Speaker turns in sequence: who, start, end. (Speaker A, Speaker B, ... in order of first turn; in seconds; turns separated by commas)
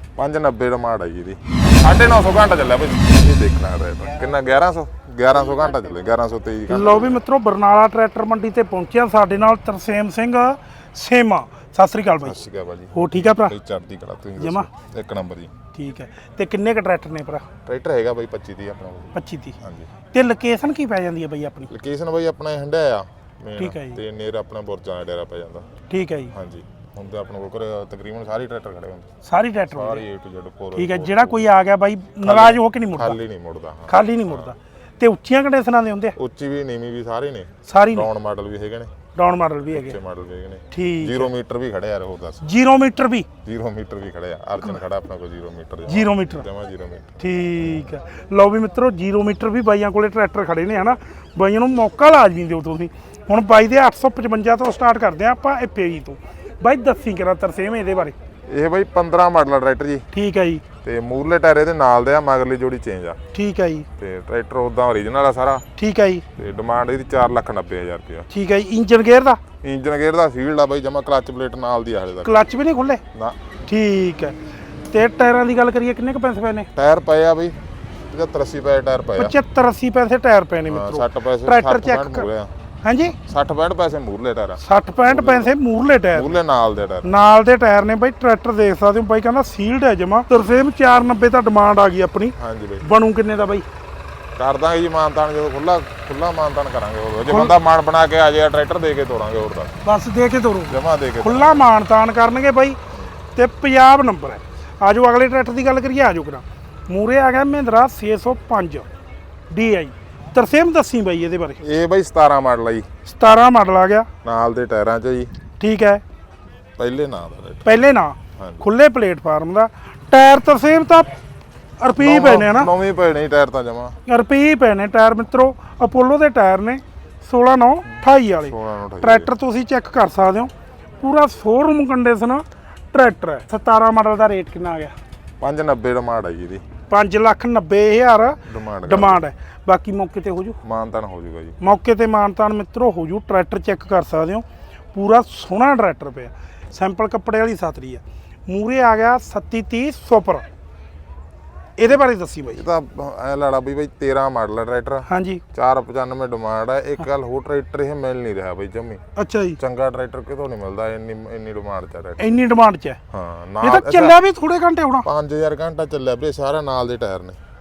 Speaker A: 0.2-7.2, Speaker B: 6.7-12.4, Speaker A: 12.2-15.5, Speaker B: 12.9-13.6, Speaker B: 14.4-14.7, Speaker B: 15.7-17.5, Speaker A: 17.6-19.9, Speaker B: 19.1-19.6, Speaker B: 20.1-21.7, Speaker A: 21.7-25.7, Speaker B: 23.6-24.0, Speaker B: 25.9-26.3, Speaker A: 26.3-29.1, Speaker B: 29.2-30.0, Speaker A: 29.7-31.5, Speaker B: 30.8-33.2, Speaker A: 32.2-34.5, Speaker B: 33.9-36.1, Speaker A: 36.2-38.9, Speaker B: 37.7-38.1, Speaker B: 39.1-40.0, Speaker A: 39.7-42.4, Speaker B: 40.7-41.3, Speaker B: 42.4-43.3, Speaker A: 43.5-47.9, Speaker B: 45.9-46.5, Speaker B: 47.2-58.1, Speaker A: 58.5-60.1, Speaker B: 60.1-60.6, Speaker A: 60.8-63.2, Speaker B: 63.3-63.9, Speaker A: 64.0-65.7, Speaker B: 65.8-66.3, Speaker A: 66.4-68.3, Speaker B: 68.3-69.4, Speaker A: 69.6-72.3, Speaker B: 72.2-73.0, Speaker A: 73.1-73.4, Speaker B: 73.7-74.4, Speaker B: 74.9-76.7, Speaker A: 76.8-77.6, Speaker A: 78.1-79.4, Speaker B: 79.2-82.3, Speaker A: 80.7-82.5, Speaker B: 82.8-83.2, Speaker A: 83.2-85.5, Speaker B: 84.6-86.3, Speaker A: 86.1-87.1, Speaker B: 87.0-93.7, Speaker A: 92.4-92.9, Speaker A: 94.4-99.7, Speaker B: 97.3-97.5, Speaker B: 99.8-102.8, Speaker A: 100.7-101.6, Speaker B: 103.3-108.9, Speaker B: 109.5-111.6, Speaker A: 111.6-112.9, Speaker B: 113.1-114.1, Speaker A: 114.2-115.3, Speaker B: 115.6-116.0, Speaker A: 116.8-117.8, Speaker B: 117.7-121.2, Speaker A: 118.4-118.6, Speaker B: 121.8-122.7, Speaker A: 122.0-124.0, Speaker B: 124.1-134.9, Speaker A: 127.9-129.3, Speaker A: 135.4-136.6, Speaker B: 136.9-140.6, Speaker A: 138.5-139.2, Speaker A: 140.6-141.6, Speaker B: 141.6-150.5, Speaker B: 151.8-152.6, Speaker A: 152.6-159.0, Speaker B: 155.1-155.4, Speaker B: 159.2-159.6, Speaker A: 159.6-162.2, Speaker B: 162.2-163.0, Speaker A: 163.1-164.2, Speaker B: 163.6-165.1, Speaker A: 165.0-167.4